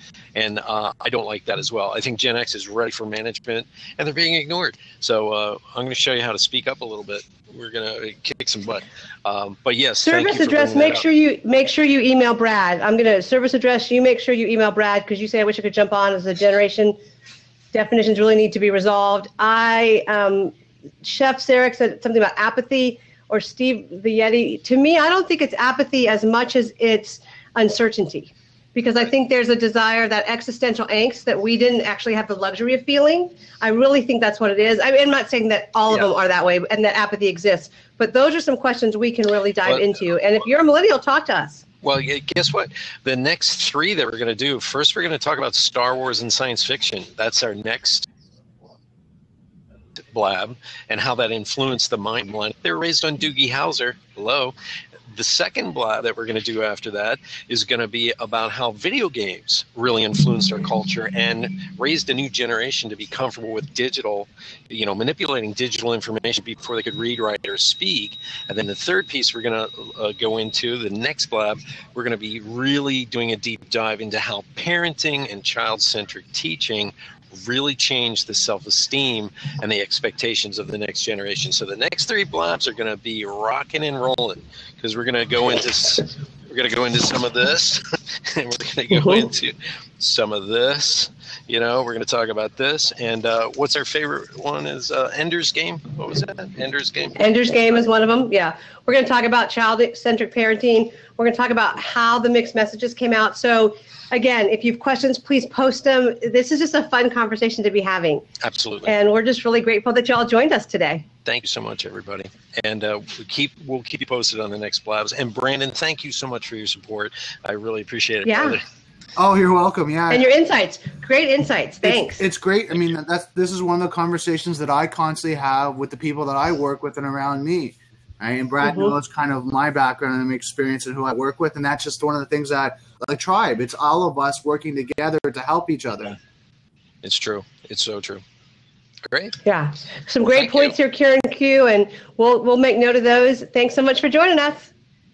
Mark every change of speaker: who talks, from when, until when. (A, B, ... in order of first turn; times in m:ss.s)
0:00.4-0:11.0 A
0:10.0-0:17.0 B
0:17.7-0:41.6 B
0:39.6-0:40.1 A
0:41.8-0:48.1 A
0:50.0-0:54.6 A
0:55.1-1:37.8 A
1:28.9-1:29.3 B
1:37.2-1:48.3 B
1:48.4-1:48.9 A
1:48.8-1:51.1 B
1:51.2-1:58.6 A
1:58.2-1:58.6 B
1:59.2-2:00.2 C
2:00.1-2:02.2 B
2:01.8-2:16.2 C
2:08.6-2:09.0 B
2:17.0-2:18.2 A
2:19.1-2:19.4 A
2:19.4-2:24.7 B
2:20.3-2:20.8 A